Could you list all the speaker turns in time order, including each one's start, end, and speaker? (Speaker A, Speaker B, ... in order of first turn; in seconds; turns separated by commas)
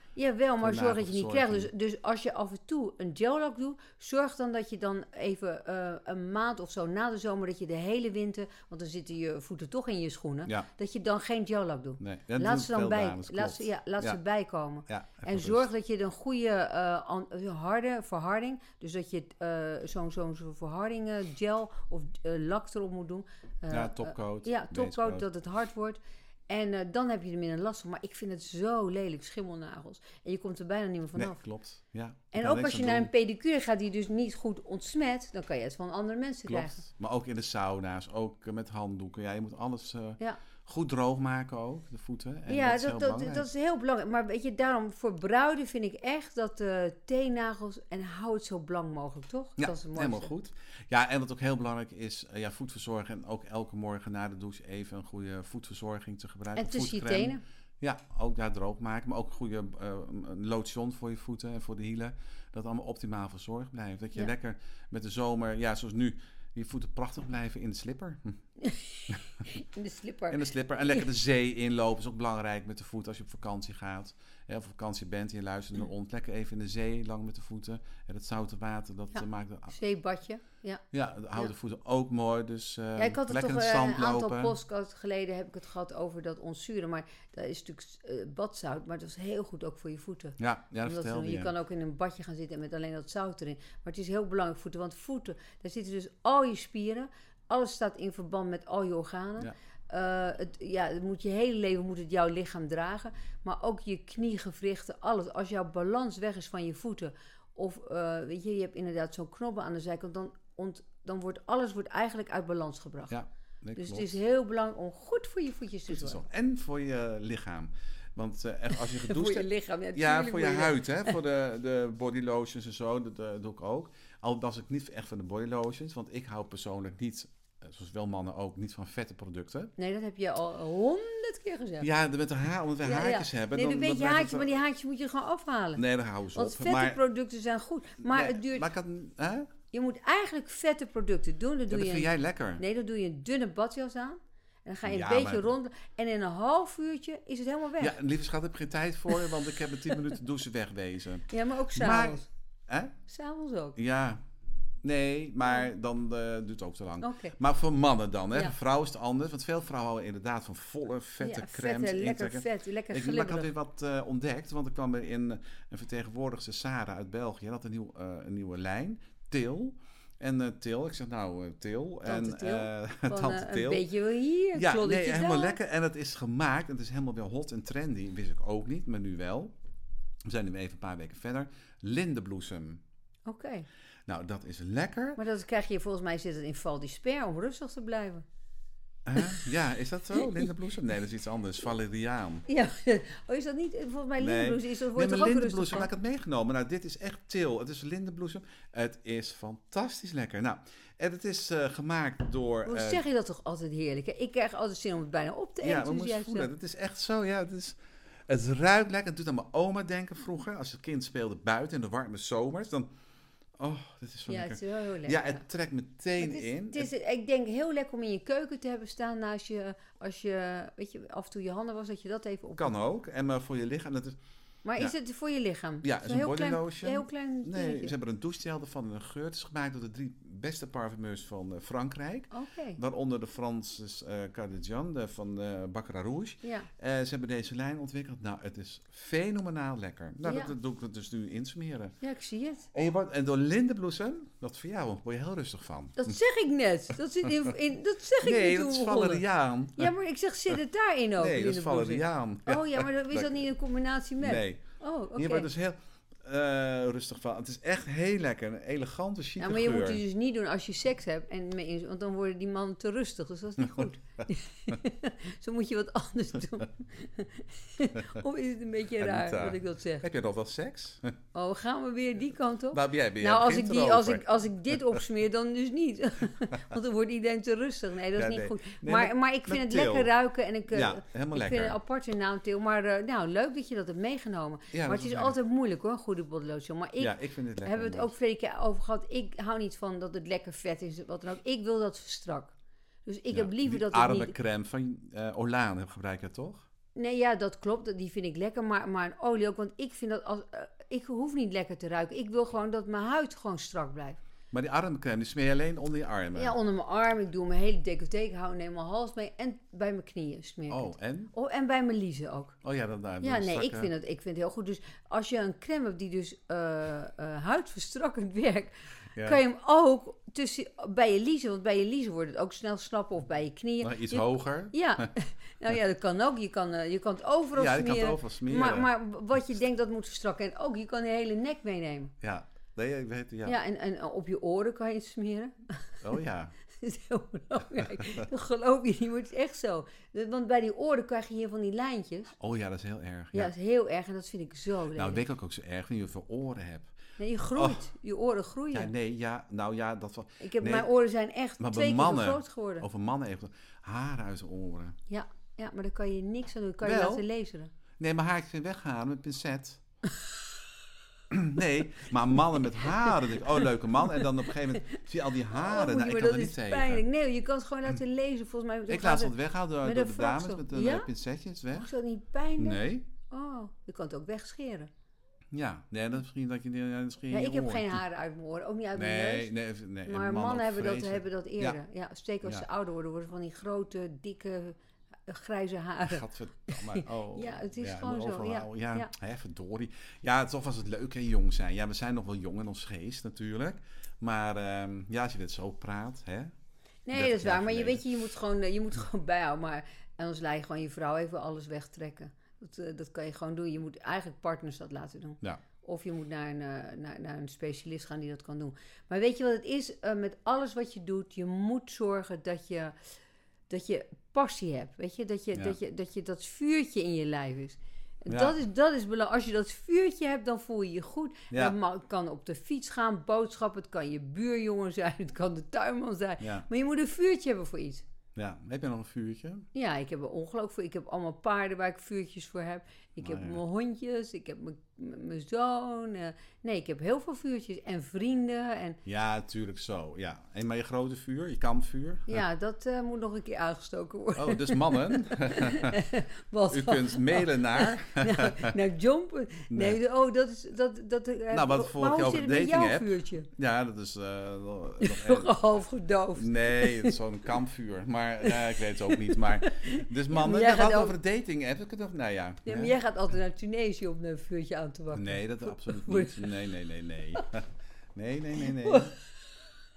Speaker A: 0.1-31.4, Speaker B: 0.6-1.7, Speaker B: 12.0-14.2, Speaker B: 14.9-15.7, Speaker B: 23.7-25.2, Speaker B: 31.1-33.1, Speaker A: 32.3-36.8, Speaker B: 36.5-43.5, Speaker A: 42.5-50.3, Speaker B: 49.6-68.4, Speaker A: 56.5-57.4, Speaker A: 68.6-70.4, Speaker B: 70.3-79.8, Speaker A: 79.1-80.8, Speaker B: 80.9-84.5, Speaker A: 83.0-113.2, Speaker B: 90.4-91.5, Speaker B: 113.1-114.2, Speaker A: 113.8-116.2, Speaker B: 115.9-129.7, Speaker A: 118.7-121.2, Speaker A: 129.8-131.9, Speaker B: 131.8-134.6, Speaker A: 132.8-135.8, Speaker B: 135.8-137.0, Speaker A: 136.3-138.7, Speaker B: 138.0-139.5, Speaker A: 139.7-147.9, Speaker B: 141.7-142.6, Speaker B: 144.8-145.5, Speaker B: 147.8-152.9, Speaker A: 149.1-150.0, Speaker A: 151.3-152.3, Speaker A: 153.1-153.8, Speaker B: 153.8-154.2, Speaker B: 154.8-173.8, Speaker A: 157.0-157.3, Speaker A: 161.2-163.5, Speaker A: 172.0-175.6, Speaker B: 174.5-179.5, Speaker B: 180.2-182.8, Speaker A: 183.2-183.7, Speaker B: 184.1-185.2, Speaker A: 185.2-188.2, Speaker B: 189.0-192.4, Speaker A: 189.2-189.5, Speaker A: 190.1-190.5, Speaker A: 192.5-195.9, Speaker B: 194.2-203.0, Speaker A: 202.7-206.5, Speaker B: 205.6-212.9, Speaker B: 213.6-216.9, Speaker A: 214.3-215.4, Speaker A: 216.2-222.7, Speaker B: 222.6-224.2, Speaker A: 224.6-227.9, Speaker B: 225.8-241.9, Speaker A: 232.3-232.8, Speaker A: 236.4-236.7, Speaker A: 240.2-240.5, Speaker A: 242.0-242.7, Speaker B: 242.7-246.2, Speaker A: 246.0-249.2, Speaker B: 248.2-249.9, Speaker A: 249.8-255.5, Speaker B: 251.2-253.5, Speaker B: 254.2-254.6, Speaker B: 255.2-260.0, Speaker A: 259.4-270.1, Speaker B: 269.0-271.1, Speaker A: 271.3-292.5, Speaker B: 272.7-275.0, Speaker B: 278.1-280.1, Speaker B: 280.7-281.8, Speaker B: 284.7-285.3, Speaker B: 287.0-288.1, Speaker A: 293.1-294.3, Speaker B: 293.3-296.6, Speaker A: 296.9-304.2, Speaker B: 304.5-306.6, Speaker A: 306.3-312.6, Speaker B: 310.7-311.3, Speaker B: 312.6-313.9, Speaker A: 313.2-332.1, Speaker B: 319.1-319.4, Speaker B: 323.8-325.1, Speaker B: 327.6-328.9, Speaker B: 332.2-333.6, Speaker A: 333.4-336.0, Speaker B: 336.0-336.5, Speaker A: 336.7-342.3, Speaker B: 337.8-338.2, Speaker B: 342.4-343.5, Speaker A: 343.3-345.2, Speaker B: 344.9-346.9, Speaker A: 347.2-348.9, Speaker B: 347.5-347.8, Speaker B: 348.7-350.9, Speaker A: 350.4-352.9, Speaker B: 351.6-354.9, Speaker A: 355.1-357.7, Speaker B: 356.8-357.2, Speaker B: 358.0-359.8, Speaker B: 361.3-367.0, Speaker A: 363.1-363.6, Speaker A: 364.5-365.0, Speaker A: 365.5-371.1, Speaker B: 368.9-371.9, Speaker A: 371.7-374.9, Speaker B: 372.6-373.1, Speaker B: 375.5-378.0, Speaker A: 377.3-379.5, Speaker B: 378.9-381.8, Speaker A: 380.0-389.1, Speaker B: 386.0-396.5, Speaker A: 397.1-412.9, Speaker B: 397.1-398.1, Speaker A: 413.7-428.0, Speaker B: 418.3-418.6, Speaker B: 421.5-421.8, Speaker B: 426.4-426.6, Speaker B: 428.3-429.6, Speaker A: 429.7-439.0, Speaker B: 433.2-433.6, Speaker B: 439.0-442.4, Speaker A: 442.3-453.5, Speaker B: 444.3-446.0, Speaker B: 446.7-448.7, Speaker B: 449.7-450.0, Speaker B: 451.5-455.6, Speaker A: 455.0-457.2, Speaker B: 456.4-462.9, Speaker A: 458.4-461.1, Speaker A: 462.6-466.6, Speaker B: 465.1-469.1, Speaker A: 468.6-469.1